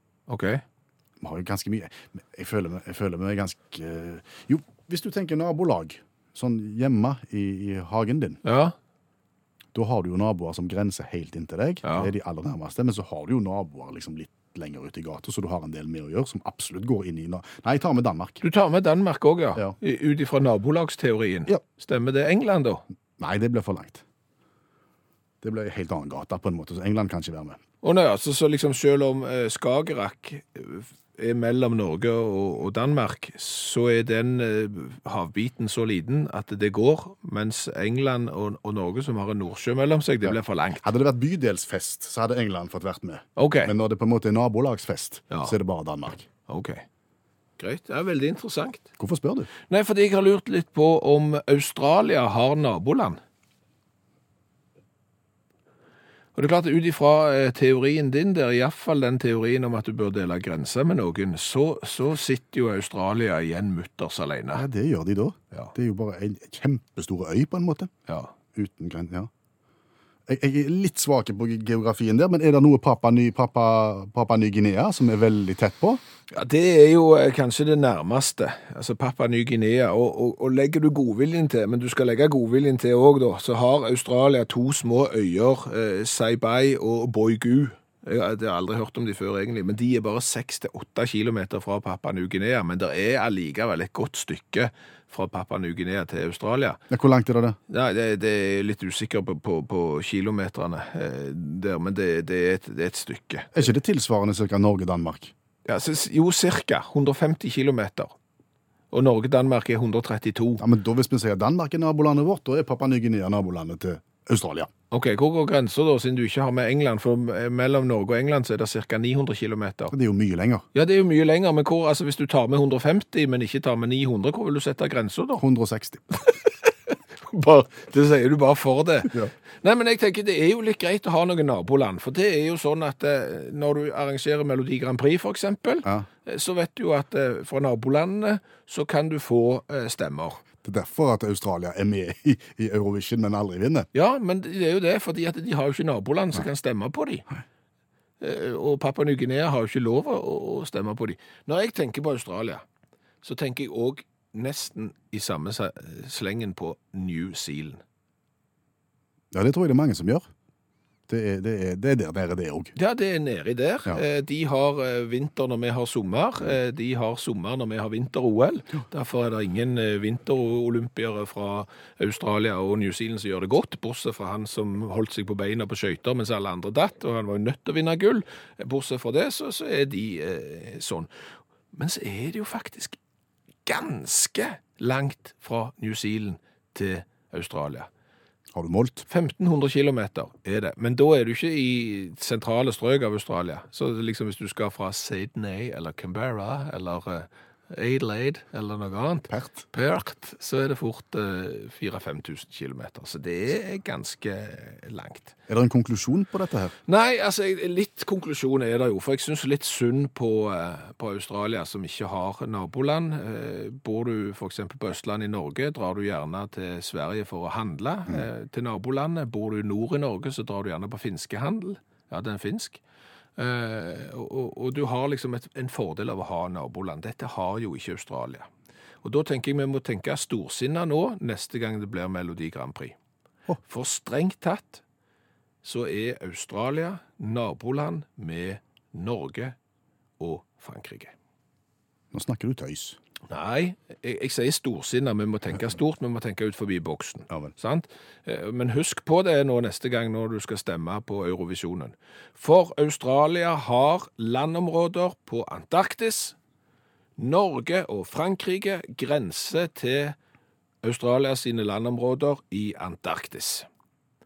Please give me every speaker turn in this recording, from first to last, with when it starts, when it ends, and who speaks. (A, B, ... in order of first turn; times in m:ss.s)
0:00.3-0:00.6 A
0:01.2-0:08.4 B
0:08.4-0:08.8 A
0:09.7-0:18.4 B
0:11.8-0:12.1 A
0:18.4-0:22.8 A
0:23.2-0:24.0 B
0:25.4-0:27.6 B
0:27.8-0:40.9 A
0:40.2-0:46.3 B
0:43.4-0:43.7 A
0:46.5-0:46.8 A
0:47.6-0:48.8 A
0:49.0-0:49.5 B
0:49.7-0:53.2 A
0:56.4-1:04.7 A
1:04.6-1:07.9 B
1:08.1-1:08.3 A
1:08.5-1:09.3 B
1:10.3-1:16.0 B
1:16.3-1:36.8 A
1:36.9-1:37.6 B
1:37.7-1:43.5 A
1:43.5-1:45.3 B
1:45.7-1:48.1 A
1:48.9-1:50.6 A
1:50.6-1:54.7 B
1:54.9-1:59.9 A
1:59.9-2:00.6 B
2:00.7-2:05.4 A
2:05.4-2:06.0 B
2:06.3-2:20.4 A
2:20.6-2:23.9 B
2:23.9-2:27.3 A
2:28.2-2:32.6 A
2:33.2-2:37.8 A
2:39.3-2:40.2 B
2:41.1-2:42.7 B
2:42.8-3:01.1 A
3:01.7-3:03.0 A
3:03.6-3:07.9 A
3:08.5-3:09.0 B
3:09.1-3:25.3 A
3:19.3-3:19.6 B
3:25.5-3:26.7 B
3:26.9-3:42.8 A
3:43.4-3:48.5 A
3:49.0-3:53.0 A
3:53.6-3:54.8 A
3:55.6-3:59.6 A
4:00.2-4:01.1 A
4:02.1-4:03.0 B
4:03.3-4:16.4 A
4:17.2-4:20.2 A
4:20.8-4:23.7 A